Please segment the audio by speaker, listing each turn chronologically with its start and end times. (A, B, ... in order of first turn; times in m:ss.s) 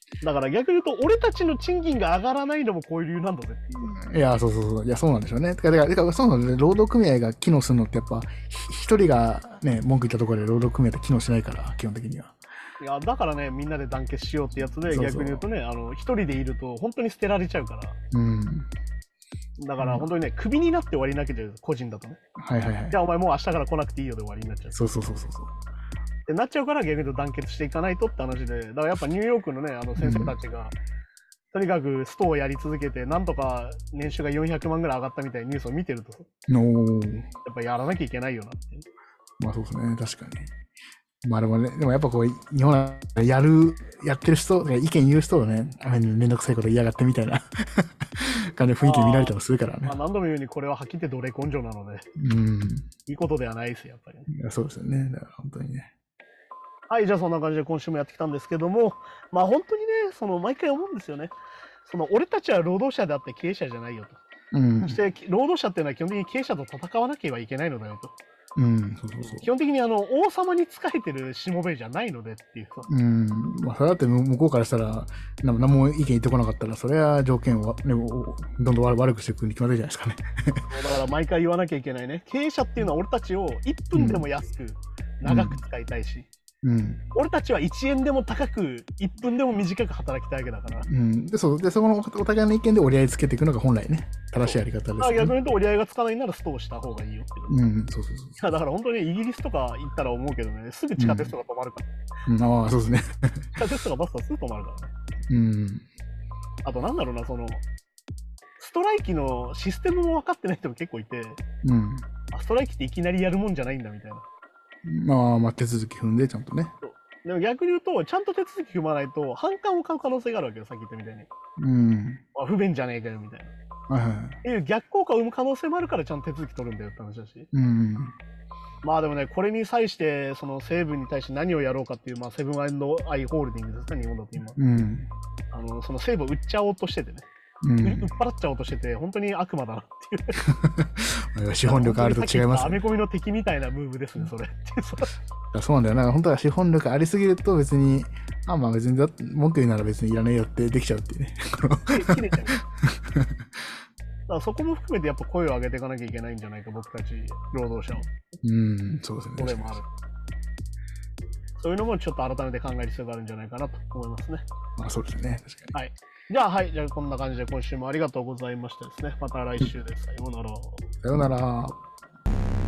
0:00.2-0:03.9 A
0:03.7-0:12.3 B
0:12.8-0:18.0 A
0:14.9-0:15.4 B
0:18.1-0:18.7 B
0:19.6-0:22.2 A
0:19.8-0:20.1 B
0:22.4-0:23.0 B
0:22.9-0:24.8 A
0:24.7-0:25.5 B
0:26.3-0:30.7 A
0:30.0-0:30.3 B
0:31.5-0:36.3 A
0:36.5-0:37.3 B
0:37.4-0:38.9 A
0:39.4-0:40.5 B
0:41.2-0:50.0 B
0:48.8-0:52.0 A
0:52.2-0:52.9 B
0:53.1-0:54.3 A
0:54.3-0:55.9 B
0:56.9-1:01.3 A
1:01.8-1:04.2 A
1:04.5-1:05.0 B
1:04.8-1:08.2 A
1:08.6-1:09.5 B
1:09.2-1:12.9 A
1:12.9-1:20.7 B
1:20.7-1:26.3 A
1:23.9-1:24.2 B
1:25.2-1:25.6 B
1:26.6-1:27.0 B
1:27.1-1:30.9 A
1:30.9-1:35.4 B
1:34.4-1:37.6 A
1:37.5-1:38.4 B
1:38.4-1:41.9 A
1:41.0-1:41.3 B
1:42.2-1:43.5 B
1:43.5-1:45.1 A
1:45.3-1:45.8 B
1:46.6-1:47.6 A
1:48.6-1:51.4 A
1:51.6-1:52.1 B
1:52.3-1:54.2 A
1:54.8-1:56.7 B
1:56.8-2:01.3 A
2:01.6-2:02.2 B
2:02.3-2:03.5 A
2:03.9-2:04.4 B
2:04.4-2:07.5 A
2:07.5-2:08.1 B
2:08.8-2:14.6 A
2:14.6-2:15.1 B
2:15.5-2:17.3 A
2:17.6-2:18.1 B
2:17.8-2:20.4 A
2:20.5-2:22.8 B
2:21.6-2:25.1 A
2:25.5-2:33.3 B
2:31.8-2:32.6 A
2:34.3-2:38.1 A
2:38.4-2:39.8 B
2:39.4-2:39.8 A
2:41.6-2:44.4 A
2:44.8-2:45.7 B
2:45.7-2:50.9 A
2:51.0-2:51.8 B